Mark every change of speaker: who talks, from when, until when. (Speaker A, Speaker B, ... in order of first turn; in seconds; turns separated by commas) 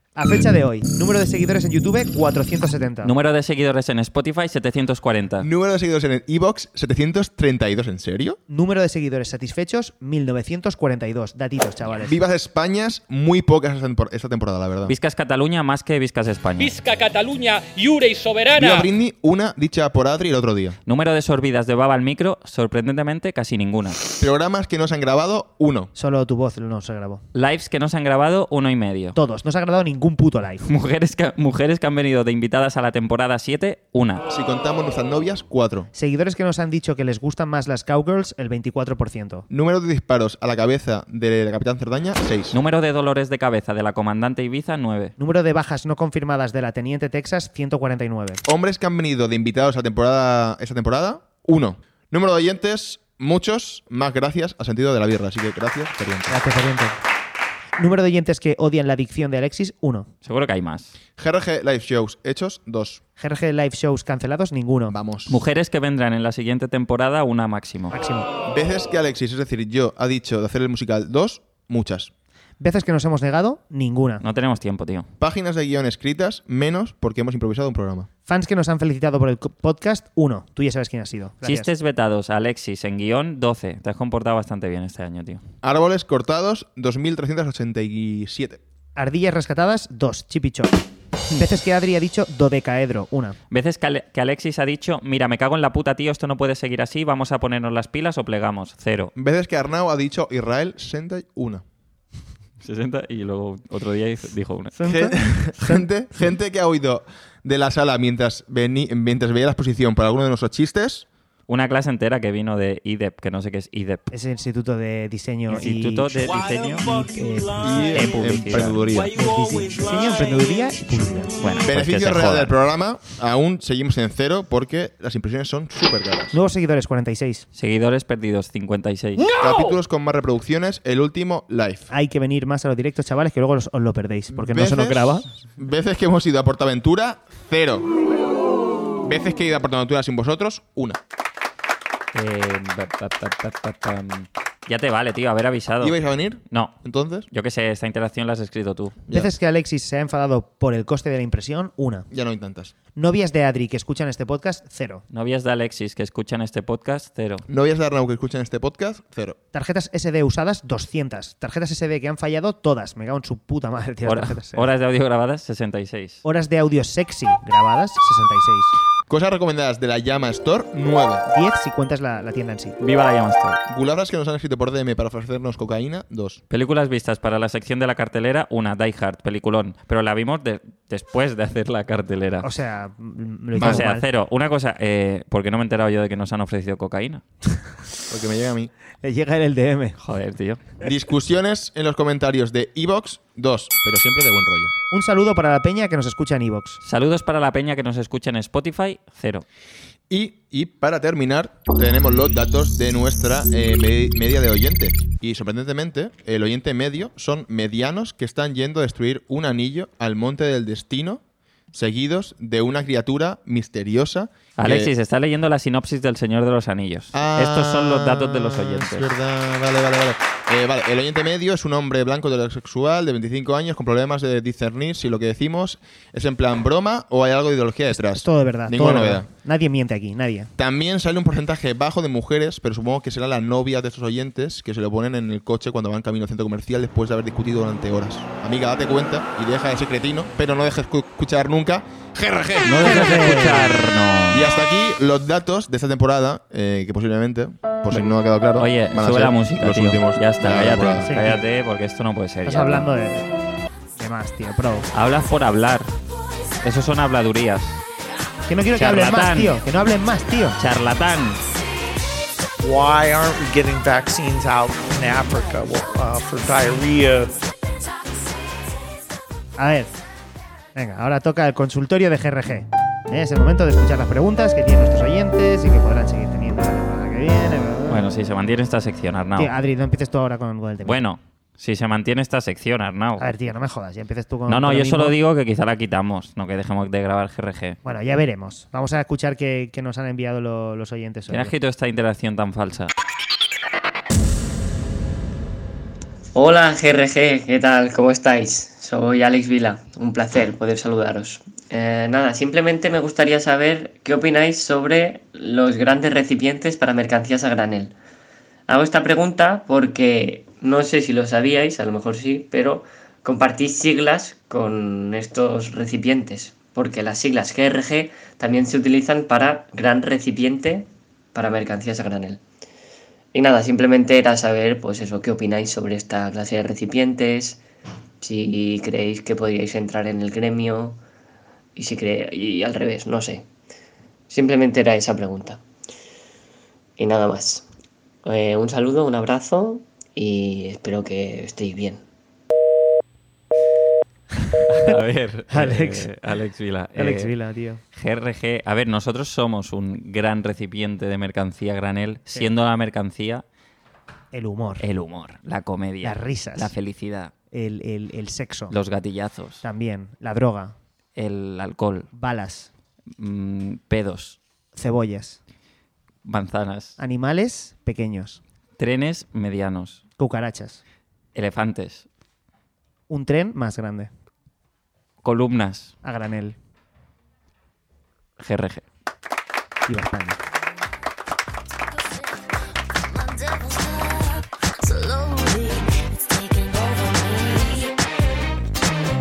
Speaker A: 0.1-3.1, Speaker B: 3.0-5.5, Speaker C: 5.4-8.4, Speaker A: 8.5-12.2, Speaker C: 12.0-14.9, Speaker B: 14.8-16.8, Speaker D: 16.6-18.9, Speaker C: 18.6-20.8, Speaker B: 20.9-24.0, Speaker C: 24.2-25.9, Speaker A: 25.9-27.2, Speaker B: 27.3-29.2, Speaker A: 29.1-30.6, Speaker B: 30.6-34.2, Speaker C: 34.3-35.9, Speaker A: 35.9-39.5, Speaker C: 39.5-42.5, Speaker B: 42.5-45.1, Speaker A: 45.2-48.4, Speaker C: 48.4-56.3, Speaker A: 56.3-57.0, Speaker A: 57.8-60.1, Speaker B: 60.2-60.9, Speaker C: 61.2-63.0, Speaker A: 63.2-65.0, Speaker C: 64.9-65.4, Speaker B: 65.3-68.0, Speaker A: 67.9-68.3, Speaker C: 68.5-72.1, Speaker A: 72.6-74.2, Speaker B: 74.2-75.1, Speaker C: 75.2-78.1, Speaker A: 78.3-81.7, Speaker B: 81.4-85.4, Speaker C: 85.6-88.6, Speaker A: 89.0-90.8, Speaker A: 91.3-93.3, Speaker B: 93.5-99.1, Speaker C: 99.2-101.6, Speaker B: 102.6-104.8, Speaker A: 104.8-105.8, Speaker C: 104.8-111.0, Speaker B: 111.5-114.1, Speaker A: 114.1-116.3, Speaker B: 115.5-117.1, Speaker A: 117.0-118.0, Speaker C: 117.6-119.2, Speaker B: 117.9-119.0, Speaker A: 119.1-121.4, Speaker B: 121.4-122.5, Speaker C: 121.6-126.3, Speaker A: 126.3-127.4, Speaker B: 127.5-129.3, Speaker D: 129.2-129.7, Speaker C: 129.4-131.9, Speaker A: 131.9-135.2, Speaker C: 134.3-137.9, Speaker C: 139.0-141.0, Speaker B: 142.1-145.9, Speaker C: 145.8-147.3, Speaker B: 146.5-146.7, Speaker B: 147.3-149.0, Speaker A: 149.1-152.1, Speaker C: 152.1-152.7, Speaker A: 152.9-155.0, Speaker B: 155.1-157.4, Speaker C: 157.5-159.4, Speaker A: 159.5-164.7, Speaker B: 164.1-166.2, Speaker A: 166.2-168.7, Speaker C: 169.1-171.2, Speaker A: 171.3-172.8, Speaker B: 172.8-173.6, Speaker C: 173.7-176.4, Speaker B: 176.5-182.5, Speaker A: 182.4-184.0, Speaker C: 183.6-183.9, Speaker B: 183.6-187.2, Speaker C: 188.1-188.7, Speaker A: 189.0-190.0, Speaker B: 190.0-190.6, Speaker C: 190.8-194.7, Speaker A: 194.9-196.8, Speaker B: 196.8-199.4, Speaker C: 200.1-211.2, Speaker C: 211.7-214.9, Speaker B: 214.6-219.1, Speaker C: 217.1-229.3, Speaker A: 228.0-230.5, Speaker C: 230.6-243.1, Speaker B: 242.7-244.5, Speaker A: 242.8-243.8, Speaker C: 244.3-251.1, Speaker B: 248.6-252.9, Speaker A: 251.1-251.4, Speaker A: 252.4-253.3, Speaker A: 254.0-254.9, Speaker B: 254.9-255.9, Speaker B: 256.6-257.8, Speaker A: 258.5-260.6, Speaker B: 258.8-259.6, Speaker B: 260.6-261.4, Speaker E: 262.6-267.4, Speaker A: 269.6-270.0, Speaker A: 270.7-278.0, Speaker B: 277.9-279.5, Speaker A: 279.4-281.0, Speaker B: 280.8-283.4, Speaker A: 283.2-285.1, Speaker B: 284.5-287.8, Speaker A: 287.8-291.5, Speaker B: 291.3-292.9, Speaker F: 296.3-307.9, Speaker F: 308.7-322.4, Speaker F: 323.3-327.6, Speaker F: 328.2-331.0, Speaker F: 331.8-333.5, Speaker F: 334.3-335.6, Speaker F: 337.0-337.6, Speaker F: 338.2-342.0, Speaker B: 344.6-347.3, Speaker A: 345.5-346.1, Speaker A: 346.9-347.8, Speaker B: 347.9-353.4, Speaker A: 354.3-354.8, Speaker B: 354.8-357.3, Speaker A: 356.0-356.7, Speaker A: 357.5-358.7, Speaker B: 358.7-359.6, Speaker A: 359.6-360.8, Speaker B: 361.1-362.1, Speaker A: 362.1-362.7, Speaker B: 363.2-364.4, Speaker A: 364.7-365.4, Speaker B: 366.2-367.0, Speaker A: 367.0-368.4, Speaker B: 368.8-370.0, Speaker A: 370.2-370.8, Speaker B: 371.3-372.1, Speaker A: 373.1-374.1, Speaker B: 375.2-375.9, Speaker A: 376.0-376.6, Speaker B: 378.4-378.8, Speaker A: 379.9-380.4